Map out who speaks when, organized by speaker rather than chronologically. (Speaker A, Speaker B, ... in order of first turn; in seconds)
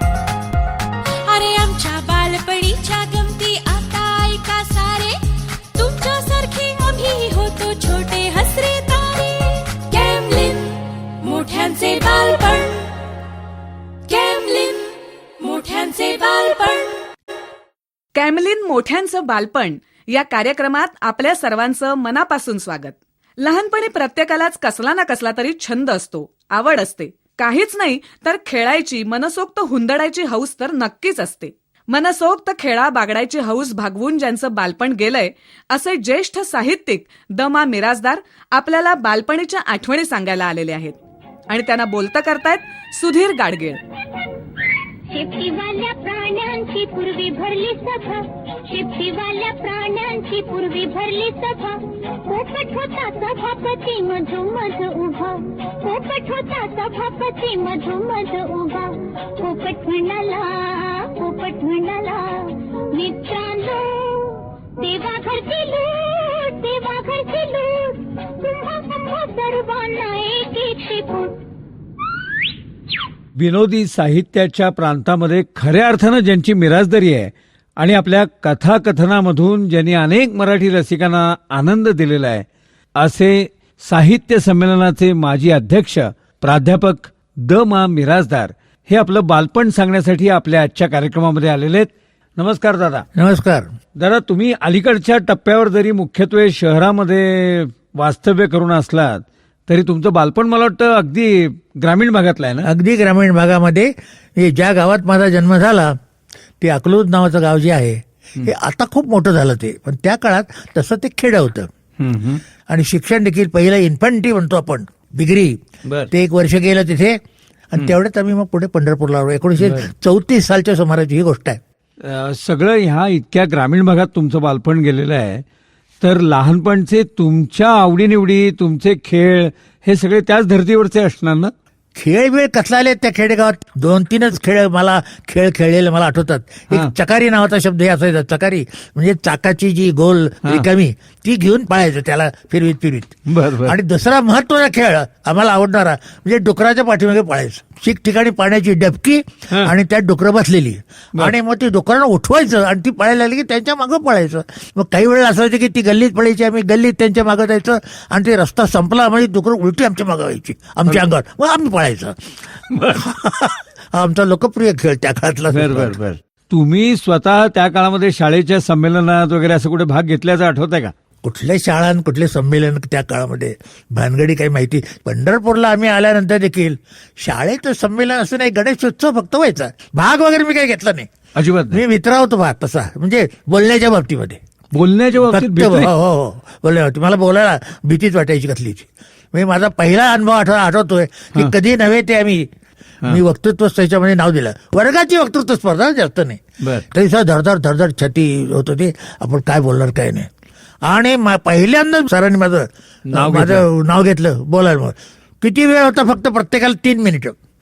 Speaker A: 1.2-13.0, 14.1-17.0
Speaker B: 18.1-41.0, 41.5-43.8
Speaker C: 45.1-71.4
Speaker D: 73.3-93.0, 94.0-102.7, 112.0-112.4, 115.8-116.1, 119.6-119.9, 122.0-125.4, 126.0-131.5, 143.3-143.8, 162.7-163.0, 165.5-170.9, 181.3-181.8, 184.7-185.9, 196.6-196.9, 203.1-203.7
Speaker E: 93.1-93.7, 102.6-106.0, 106.6-111.7, 112.7-115.5, 116.1-117.2, 117.7-121.6, 131.9-162.3, 162.9-165.9, 171.2-181.1, 181.7-184.4, 185.2-192.5, 193.0-200.3, 200.8-207.3